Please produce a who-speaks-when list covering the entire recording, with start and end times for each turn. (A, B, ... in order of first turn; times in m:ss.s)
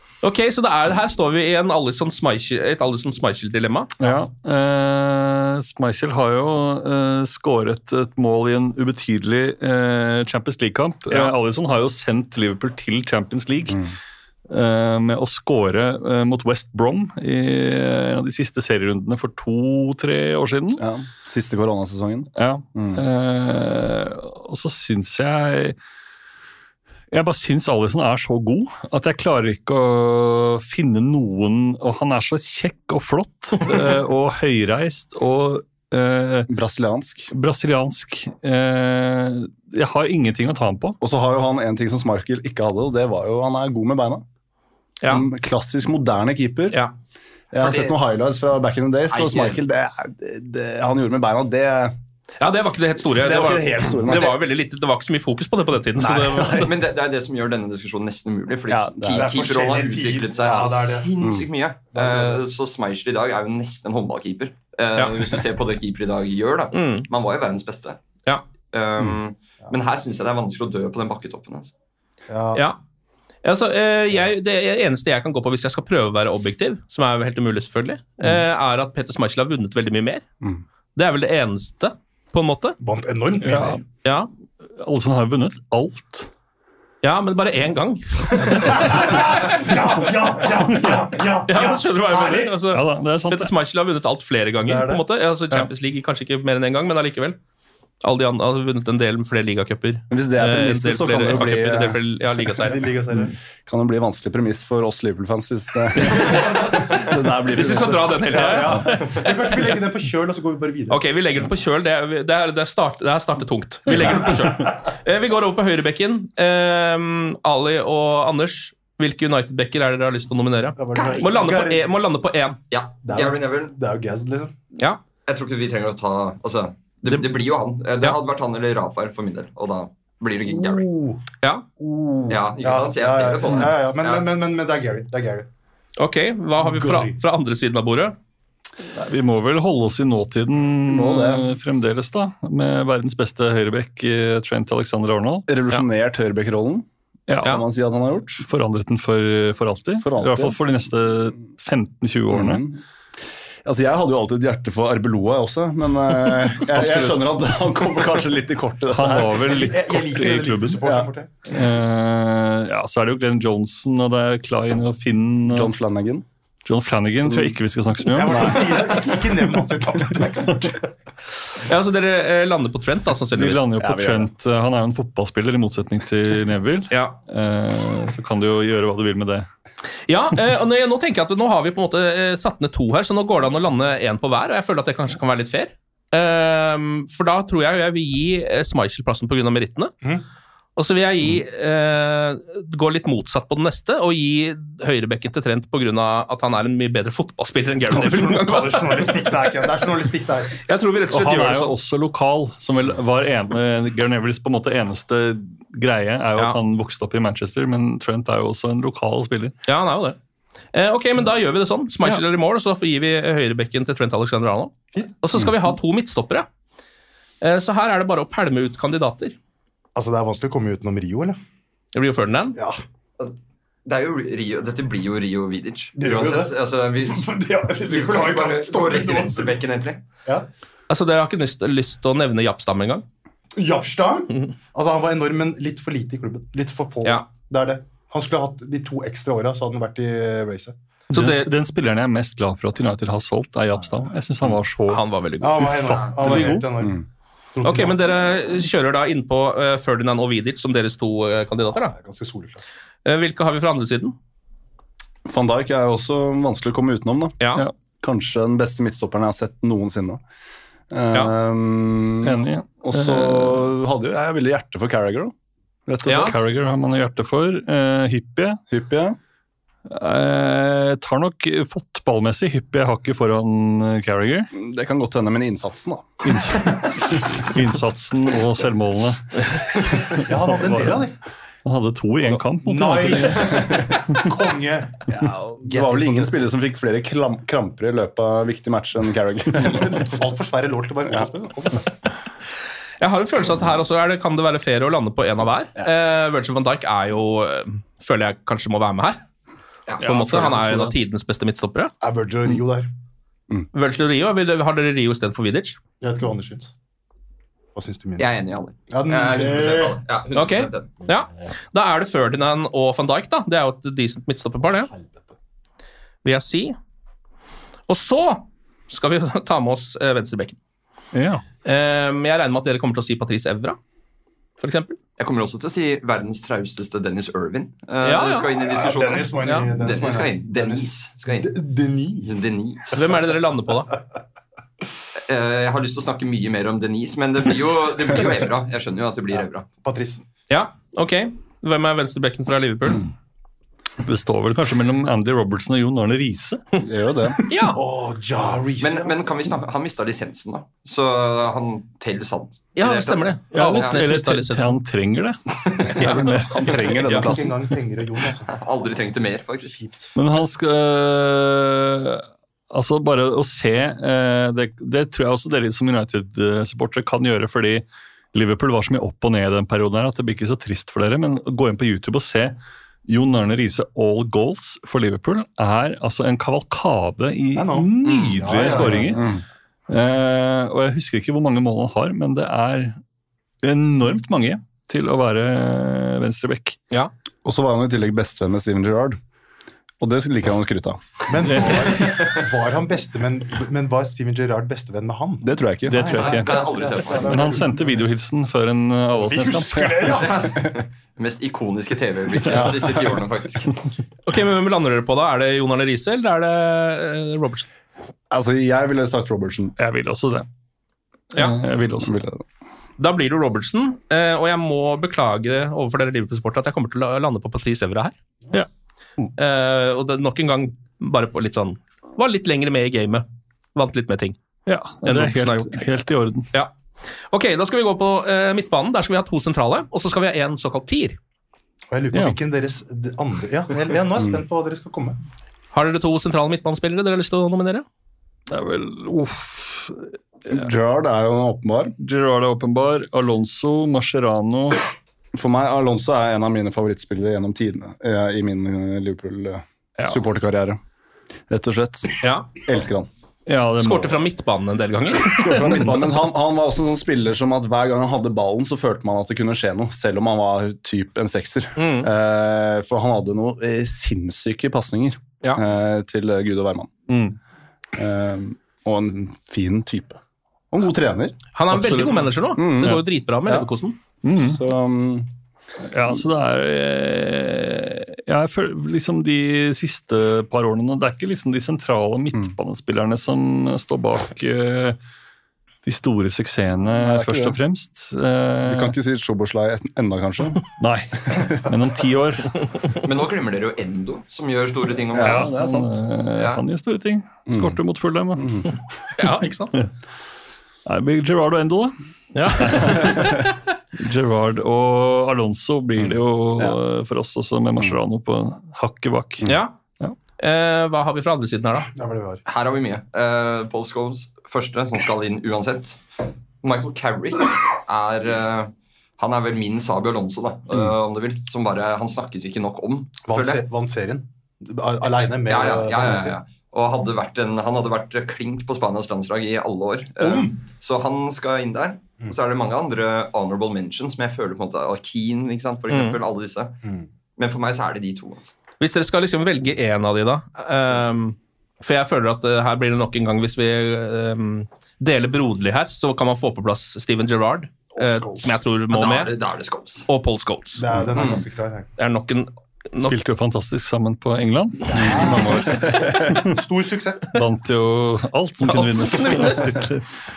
0:00.2-0:03.9 A
0:04.0-0:13.8 B
0:14.5-0:20.8 B
0:20.8-0:23.0 C
0:22.4-0:25.8 B
0:27.1-0:36.5 B
0:36.5-0:37.3 C
0:37.3-0:41.0 B
0:41.0-0:44.2 C
0:45.1-0:46.8 C
0:47.5-0:51.9 C
0:47.6-0:47.9 A
0:52.4-0:56.7 A
0:53.1-0:54.4 C
0:56.0-0:56.7 C
0:56.5-1:08.0 D
0:58.7-0:59.3 C
0:59.1-1:01.1 E
1:01.2-1:01.4 C
1:01.9-1:02.4 E
1:06.7-1:07.0 A
1:08.7-1:11.7 D
1:12.3-1:12.6 E
1:13.4-1:20.2 A
1:21.0-1:22.8 A
1:22.8-1:23.8 E
1:23.4-1:23.8 B
1:24.0-1:24.3 A
1:24.8-1:26.3 B
1:27.0-1:29.4 A
1:28.6-1:32.6 E
1:31.5-1:37.4 A
1:32.7-1:33.5 B
1:34.6-1:35.0 E
1:38.0-1:42.8 A
1:40.1-1:42.0 C
1:42.6-1:43.3 E
1:43.6-1:48.8 C
1:46.0-1:49.8 A
1:48.3-1:51.0 E
1:50.9-2:02.6 A
1:54.0-1:54.2 E
2:00.8-2:01.8 E
2:02.7-2:03.7 D
2:03.0-2:04.5 E
2:05.2-2:10.9 D
2:10.4-2:11.2 E
2:11.8-2:15.5 E
2:12.3-2:14.2 D
2:16.0-2:18.2 A
2:16.6-2:17.2 E
2:18.9-2:25.4 B
2:20.9-2:21.5 C
2:25.5-2:26.8 C
2:27.3-2:27.6 B
2:27.4-2:28.4 C
2:28.4-2:32.6 B
2:30.0-2:30.6 C
2:32.3-2:32.8 C
2:33.6-2:39.4 C
2:36.6-2:37.4 B
2:38.9-2:40.8 B
2:39.4-2:41.3 E
2:41.5-2:45.7 B
2:45.4-2:46.2 C
2:46.6-2:48.7 B
2:47.2-2:47.6 C
2:48.1-2:50.9 E
2:48.2-2:48.6 C
2:51.6-2:53.6 A
2:53.3-2:59.5 B
2:53.8-2:54.3 C
2:56.9-2:57.2 A
3:00.1-3:09.9 A
3:10.8-3:19.2 A
3:17.8-3:20.6 E
3:20.6-3:21.7 A
3:21.1-3:29.5 B
3:29.6-3:30.2 A
3:30.7-3:36.5 A
3:37.4-3:39.4 A
3:39.9-3:41.4 E
3:41.9-3:42.6 A
3:42.5-3:42.8 E
3:43.2-3:47.3 D
3:46.0-3:49.6 E
3:47.8-3:50.0 D
3:50.9-3:53.0 A
3:53.6-4:00.8 E
4:01.1-4:01.5 A
4:01.1-4:06.7 B
4:04.9-4:05.8 A
4:05.4-4:07.0 E
4:07.5-4:08.0 E
4:07.6-4:11.9 A
4:11.8-4:12.6 E
4:13.0-4:14.1 A
4:15.2-4:17.4 C
4:18.0-4:20.2 C
4:20.9-4:25.3 C
4:22.2-4:23.7 B
4:25.9-4:26.4 C
4:26.0-4:26.4 A
4:26.1-4:28.6 B
4:28.7-4:29.2 C
4:29.9-4:34.5 B
4:34.5-4:36.1 C
4:36.2-4:41.1 B
4:40.2-4:41.2 E
4:41.6-4:44.2 B
4:42.6-4:45.0 E
4:45.1-4:50.1 C
4:45.6-4:46.4 E
4:49.6-4:51.9 E
4:53.0-4:59.2 A
5:00.0-5:01.9 A
5:00.0-5:00.9 B
5:02.0-5:02.9 E
5:03.7-5:05.8 A
5:06.0-5:06.7 E
5:07.7-5:08.3 E
5:08.2-5:10.9 D
5:08.9-5:10.0 E
5:10.3-5:14.9 A
5:14.6-5:15.3 E
5:16.2-5:16.8 A
5:17.9-5:20.6 A
5:21.1-5:21.4 B
5:21.6-5:23.8 A
5:24.6-5:25.0 A
5:25.2-5:31.5 D
5:28.0-5:28.5 A
5:28.5-5:32.3 E
5:29.4-5:29.7 A
5:32.2-5:33.0 D
5:32.9-5:33.9 A
5:35.3-5:39.7 D
5:39.8-5:40.2 E
5:40.5-5:43.1 A
5:44.0-5:46.6 B
5:46.8-5:47.4 C
5:47.4-5:47.8 A
5:47.7-5:49.2 E
5:48.8-5:54.0 D
5:52.8-5:54.8 A
5:53.5-5:57.3 B
5:56.0-5:57.3 A
5:56.0-5:57.6 C
5:57.2-5:58.5 E
5:58.5-5:59.8 D
5:59.7-6:00.1 E
6:00.2-6:19.3 B
6:17.5-6:19.2 E
6:18.6-6:19.4 C
6:19.9-6:23.0 B
6:23.6-6:26.8 B
6:27.4-6:29.2 C
6:30.0-6:31.2 C
6:31.3-6:38.1 E
6:31.5-6:32.1 B
6:35.4-6:36.4 C
6:35.9-6:40.2 B
6:36.1-6:37.5 D
6:39.1-6:40.5 E
6:40.2-6:43.8 D
6:42.5-6:42.9 C
6:44.2-6:47.7 A
6:48.3-6:49.7 C
6:49.8-6:50.5 B
6:51.3-6:52.1 B
6:52.0-6:52.4 C
6:53.0-6:58.1 A
6:59.4-7:04.4 A
7:04.6-7:06.5 B
7:05.0-7:05.8 A
7:07.3-7:11.2 A
7:11.9-7:15.2 E
7:15.7-7:17.8 A
7:18.5-7:20.6 B
7:20.5-7:21.9 C
7:22.0-7:24.8 B
7:25.3-7:30.8 C
7:30.0-7:30.2 B
7:31.5-7:33.1 C
7:32.2-7:32.5 A
7:33.5-7:34.2 B
7:33.8-7:35.9 A
7:35.3-7:46.9 C
7:41.8-7:42.1 A
7:47.1-7:47.4 B
7:48.0-7:50.2 C
7:50.7-7:51.4 C
7:51.5-7:54.0 A
7:51.7-7:52.3 B
7:52.6-7:53.7 C
7:54.2-7:54.6 B
7:54.4-7:55.3 C
7:55.9-8:05.0 B
8:05.8-8:09.0 B
8:06.9-8:07.6 C
8:08.6-8:10.7 C
8:10.8-8:12.7 B
8:11.3-8:11.6 C
8:13.0-8:15.5 D
8:15.1-8:16.0 C
8:15.2-8:18.6 B
8:16.4-8:16.6 D
8:17.5-8:17.8 C
8:18.4-8:18.7 C
8:19.2-8:19.8 A
8:20.8-8:21.9 B
8:22.3-8:23.5 A
8:22.5-8:23.4 B
8:24.0-8:29.5 B
8:26.0-8:26.8 C
8:29.4-8:29.7 A
8:30.4-8:31.9 A
8:31.9-8:32.4 E
8:32.4-8:36.0 D
8:36.6-8:43.6 D
8:43.2-8:46.4 E
8:45.4-8:56.8 D
8:50.2-8:50.6 E
8:55.9-8:56.2 A
8:56.8-8:57.1 E
8:57.4-8:58.5 D
8:58.8-9:09.3 A
9:07.9-9:08.6 E
9:08.9-9:10.1 D
9:10.1-9:10.8 A
9:10.8-9:11.9 E
9:11.1-9:11.4 D
9:12.0-9:13.1 A
9:13.0-9:16.6 B
9:14.9-9:15.6 E
9:15.0-9:16.3 C
9:16.3-9:17.2 E
9:17.3-9:20.0 B
9:18.6-9:19.8 A